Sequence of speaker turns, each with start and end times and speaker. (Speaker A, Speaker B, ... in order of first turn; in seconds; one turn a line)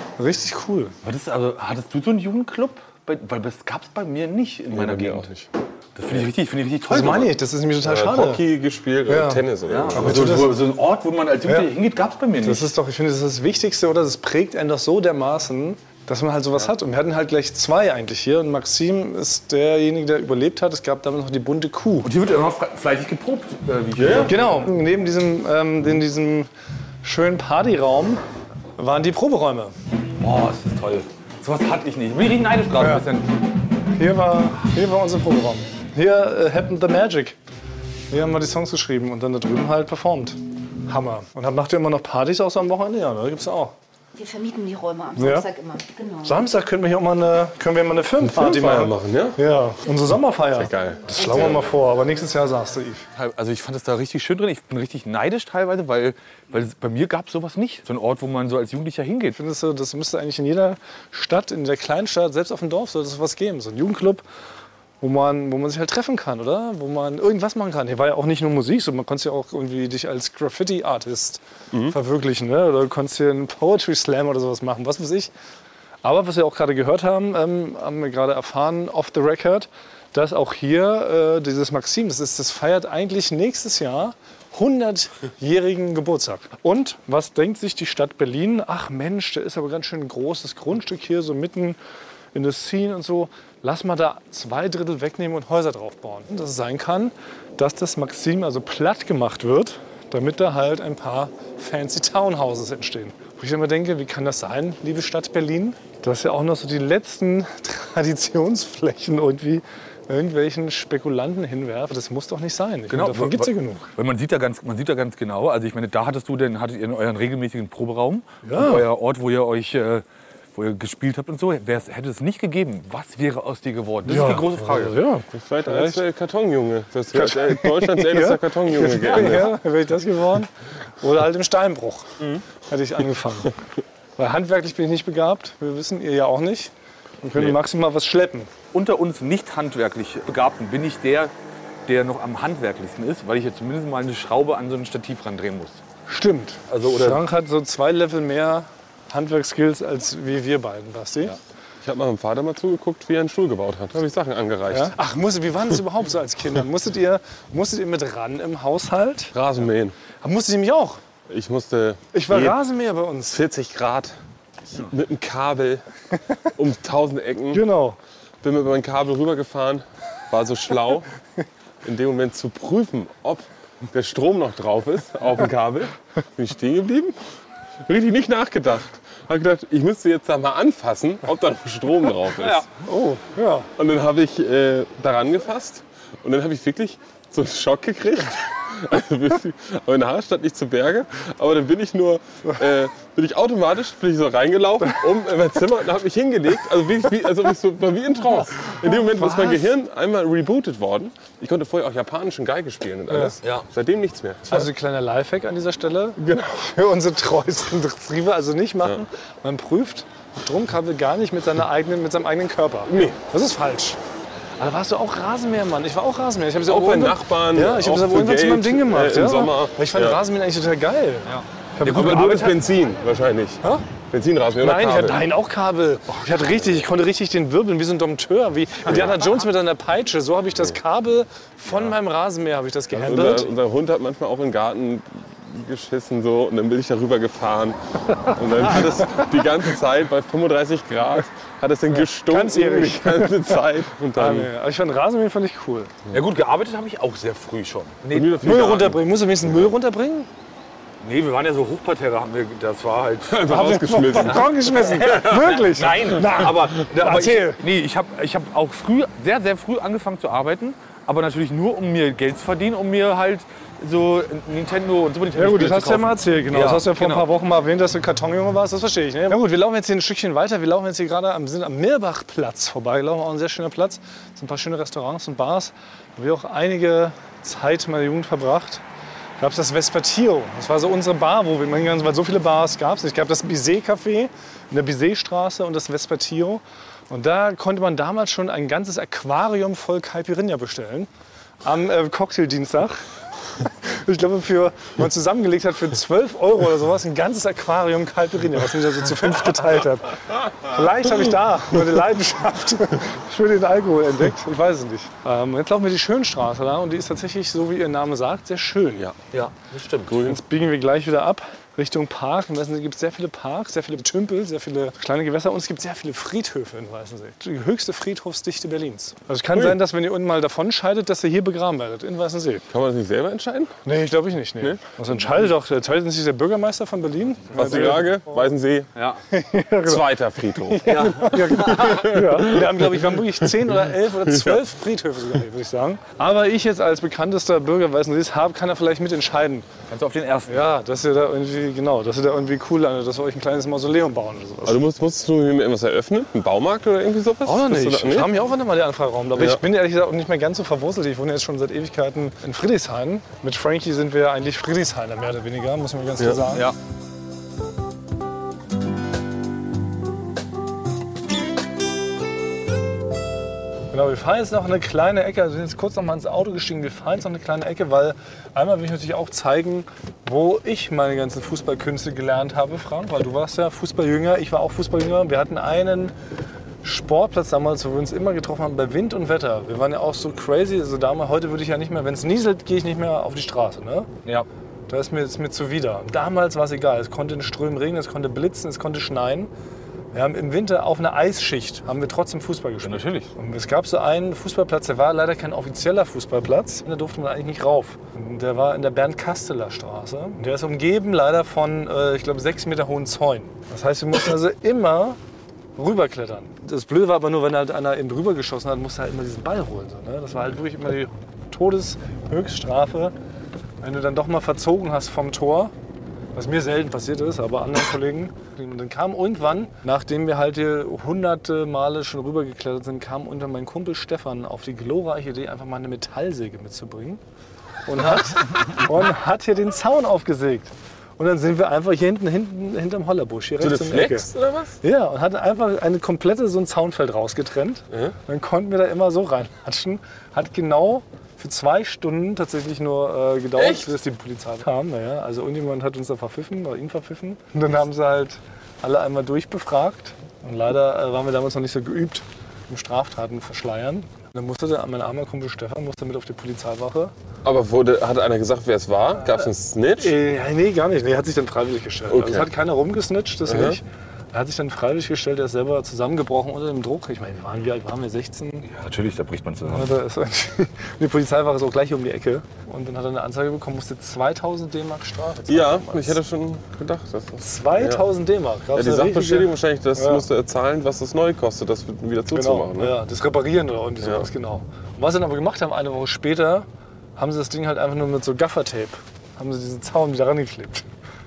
Speaker A: 0.2-1.0
Speaker B: 1.0-5.3
Speaker C: 4.7-5.5
Speaker B: 6.0-7.4
Speaker A: 6.9-8.4
Speaker C: 7.8-10.5
Speaker A: 9.1-10.6
Speaker B: 9.7-12.7
Speaker A: 11.5-11.7
Speaker A: 12.4-22.1
Speaker B: 22.0-24.4
Speaker C: 24.0-24.3
Speaker A: 24.3-26.5
Speaker A: 27.0-28.2
Speaker A: 28.8-29.7
Speaker B: 30.2-33.3
Speaker A: 32.8-33.1
Speaker A: 33.9-37.4
Speaker A: 38.1-43.7
Speaker D: 44.1-46.4
Speaker A: 45.2-45.5
Speaker A: 46.2-53.1
Speaker C: 48.2-49.4
Speaker C: 50.6-51.6
Speaker D: 51.2-51.5
Speaker B: 53.1-59.4
Speaker A: 59.3-64.2
Speaker A: 65.0-75.3
Speaker A: 76.0-91.8
Speaker A: 92.3-113.9
Speaker B: 112.9-125.0
Speaker A: 118.4-118.9
Speaker A: 124.1-126.0
Speaker C: 125.3-129.6
Speaker A: 127.1-133.6
Speaker A: 134.2-136.7
Speaker A: 137.2-138.5
Speaker B: 138.7-141.3
Speaker B: 141.9-145.8
Speaker A: 146.1-151.4
Speaker B: 146.7-147.2
Speaker C: 151.8-154.9
Speaker A: 154.7-159.3
Speaker C: 159.3-160.0
Speaker A: 160.2-161.0
Speaker C: 161.3-162.6
Speaker A: 162.1-163.4
Speaker C: 163.3-164.2
Speaker C: 164.7-165.8
Speaker C: 166.6-167.6
Speaker A: 167.5-168.0
Speaker C: 168.4-171.1
Speaker C: 171.8-177.2
Speaker C: 177.9-182.7
Speaker A: 182.4-183.7
Speaker C: 183.8-204.7
Speaker A: 198.7-199.7
Speaker A: 203.1-203.4
Speaker A: 204.5-214.0
Speaker C: 206.2-206.4
Speaker C: 212.9-213.2
Speaker A: 214.6-222.6
Speaker C: 216.7-220.2
Speaker B: 221.8-222.6
Speaker C: 221.9-225.2
Speaker A: 224.6-233.5
Speaker C: 228.9-229.3
Speaker C: 233.0-244.5
Speaker A: 238.9-239.3
Speaker A: 241.9-243.6
Speaker A: 244.2-245.9
Speaker B: 246.1-248.5
Speaker C: 248.1-249.7
Speaker A: 248.4-250.3
Speaker B: 251.0-253.5
Speaker C: 253.3-255.6
Speaker A: 253.5-257.6
Speaker B: 254.9-267.3
Speaker A: 265.4-278.8
Speaker A: 279.4-291.1
Speaker A: 291.6-293.1
Speaker A: 293.6-309.1
Speaker B: 309.3-310.3
Speaker C: 310.1-310.4
Speaker A: 310.2-322.7
Speaker C: 319.5-319.8
Speaker C: 322.7-323.8
Speaker A: 323.9-328.2
Speaker C: 327.5-329.0
Speaker B: 329.0-329.2
Speaker A: 329.3-339.7
Speaker C: 329.9-334.7
Speaker B: 330.9-331.7
Speaker B: 339.9-340.6
Speaker A: 340.5-344.8
Speaker C: 344.7-348.3
Speaker A: 347.4-356.7
Speaker C: 349.4-349.6
Speaker B: 356.5-356.8
Speaker A: 363.9-376.1
Speaker A: 376.8-384.1
Speaker A: 384.9-389.5
Speaker A: 390.1-405.2
Speaker B: 392.8-393.3
Speaker A: 405.8-413.1
Speaker A: 413.8-415.7
Speaker A: 416.4-427.2
Speaker A: 427.9-434.3
Speaker C: 433.6-434.8
Speaker A: 434.8-457.1
Speaker C: 443.6-443.9
Speaker C: 457.4-460.2
Speaker A: 460.0-468.7
Speaker C: 462.1-462.5
Speaker C: 463.5-463.8
Speaker B: 468.6-469.9
Speaker A: 469.7-476.2
Speaker C: 475.5-478.0
Speaker A: 477.4-480.2
Speaker C: 478.7-482.9
Speaker A: 482.3-490.9